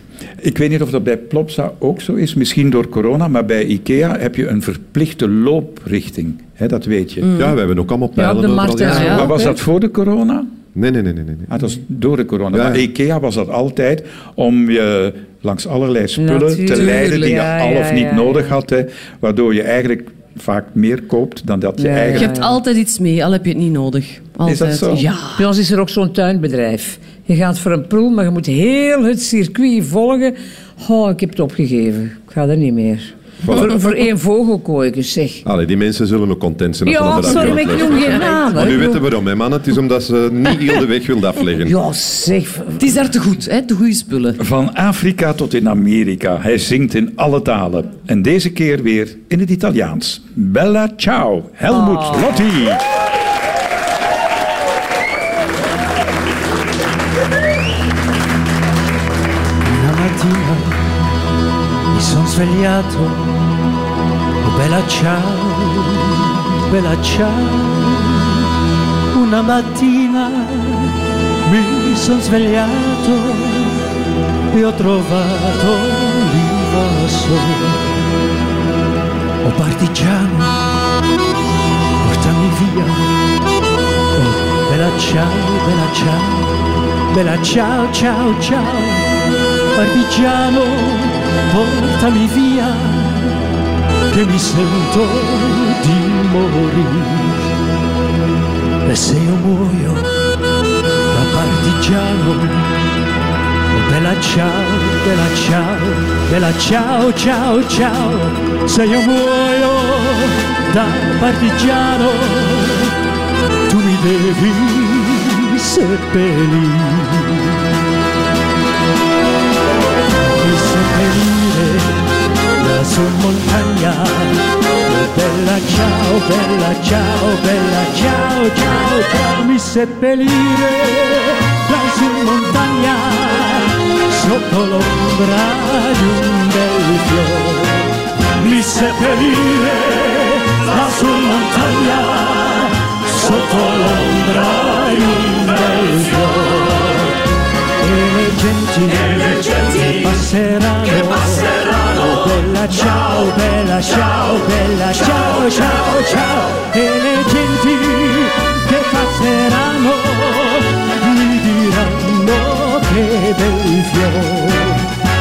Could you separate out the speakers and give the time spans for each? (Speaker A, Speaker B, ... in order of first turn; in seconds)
Speaker A: 0.4-7.3, 8.9-10.5, 11.5-22.3, 24.4-25.1, 44.4-52.8
Speaker B: 7.2-7.5, 8.9-9.3, 16.7-17.4, 22.1-25.2, 42.8-44.4, 51.8-52.3
Speaker C: 7.3-9.3, 10.7-11.5, 12.5-12.8, 33.4-33.7, 35.4-41.7
Speaker D: 8.2-9.5, 16.2-18.5, 21.8-22.6, 25.0-35.4, 36.9-39.0, 41.6-42.9
Speaker E: 59.6-60.9, 61.9-63.3, 64.4-68.5, 69.1-73.8, 74.5-77.9, 79.4-80.6, 82.0-83.1, 84.1-86.5, 87.1-89.1, 89.7-93.4, 94.1-97.5, 98.8-100.1, 101.1-102.7, 103.7-112.9, 113.7-117.6, 120.4-122.0, 122.6-147.2, 147.8-164.9